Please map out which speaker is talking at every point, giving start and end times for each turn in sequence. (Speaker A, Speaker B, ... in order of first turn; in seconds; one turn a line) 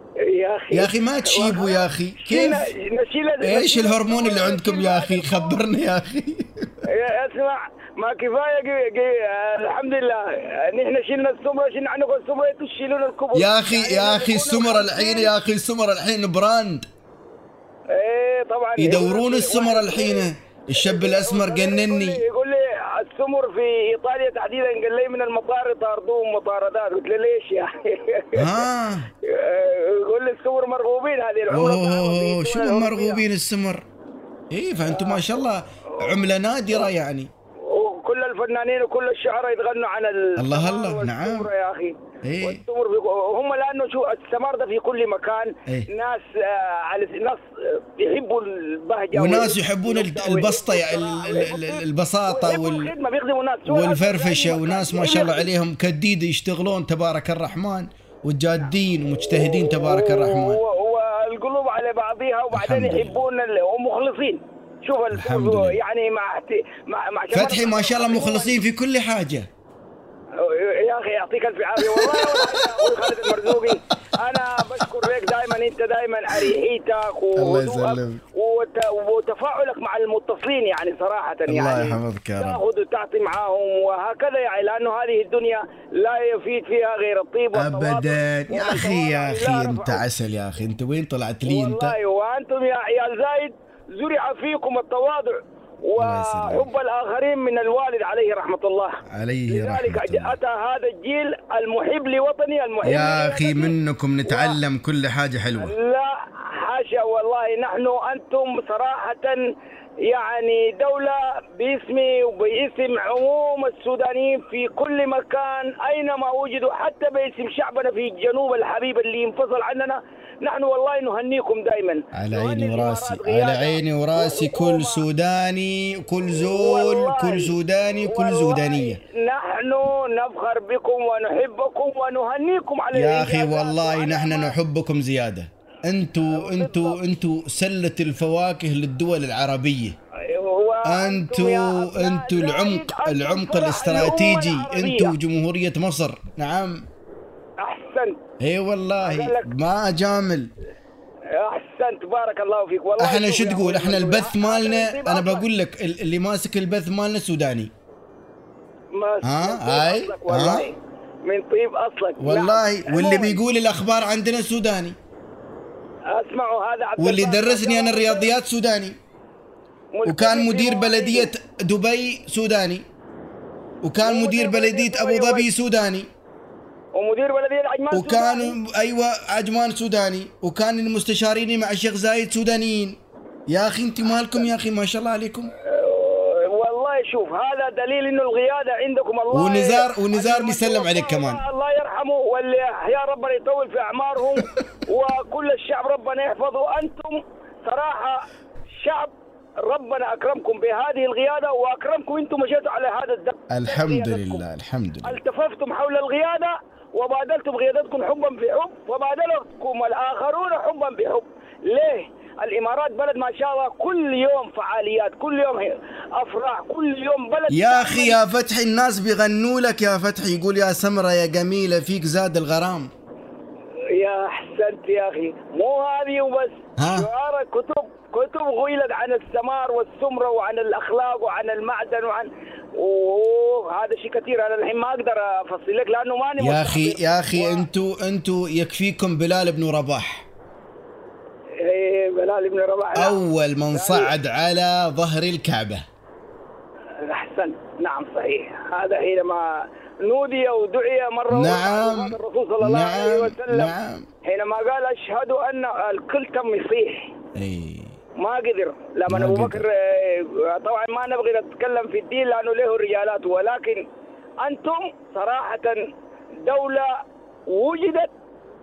Speaker A: 0.2-5.6
Speaker B: 0.7-2.7
Speaker B: 3.4-6.8
Speaker A: 6.8-15.3
Speaker B: 13.3-16.8
Speaker A: 17.9-28.7
Speaker B: 18.8-22.2
Speaker B: 28.3-29.1
Speaker A: 29.2-33.2
Speaker B: 31.5-33.8
Speaker B: 34.5-37.3
Speaker A: 34.8-36.9
Speaker A: 37.6-55.5
Speaker B: 40.4-41.5
Speaker B: 42.2-42.6
Speaker B: 49.1-52.9
Speaker B: 53.7-60.6
Speaker A: 58.6-68.5
Speaker B: 62.5-63.2
Speaker B: 65.1-65.8
Speaker B: 67.3-69.5
Speaker A: 70.3-90.0
Speaker B: 71.8-72.7
Speaker B: 77.3-78.2
Speaker B: 81.5-82.6
Speaker B: 87.5-92.0
Speaker A: 91.5-103.8
Speaker B: 96.0-96.7
Speaker B: 99.1-100.4
Speaker B: 102.8-105.8
Speaker A: 104.2-104.6
Speaker A: 105.6-109.5
Speaker A: 110.0-125.1
Speaker B: 122.1-129.0
Speaker A: 126.3-134.6
Speaker B: 132.9-139.9
Speaker A: 136.2-137.0
Speaker A: 140.2-145.2
Speaker B: 140.8-146.8
Speaker A: 147.6-148.2
Speaker B: 148.4-150.5
Speaker A: 149.0-149.5
Speaker A: 151.3-155.5
Speaker B: 153.0-157.7
Speaker A: 158.9-163.4
Speaker B: 159.2-160.7
Speaker B: 162.2-165.0
Speaker A: 166.1-168.3
Speaker B: 167.0-169.0
Speaker A: 169.9-171.3
Speaker B: 170.0-172.8
Speaker B: 173.8-176.1
Speaker A: 174.0-175.5
Speaker A: 176.9-178.6
Speaker B: 177.9-185.5
Speaker A: 185.6-198.3
Speaker B: 189.3-191.4
Speaker A: 198.8-204.4
Speaker B: 203.5-205.2
Speaker A: 205.0-218.2
Speaker B: 217.5-222.9
Speaker A: 223.9-237.7
Speaker B: 226.8-227.1
Speaker B: 236.4-240.3
Speaker A: 241.6-243.2
Speaker B: 242.9-245.8
Speaker A: 243.7-244.1
Speaker A: 247.0-257.1
Speaker B: 251.3-254.1
Speaker B: 257.4-258.0
Speaker A: 258.2-263.9
Speaker B: 259.1-259.6
Speaker A: 264.4-265.9
Speaker A: 266.5-266.9
Speaker A: 267.5-268.1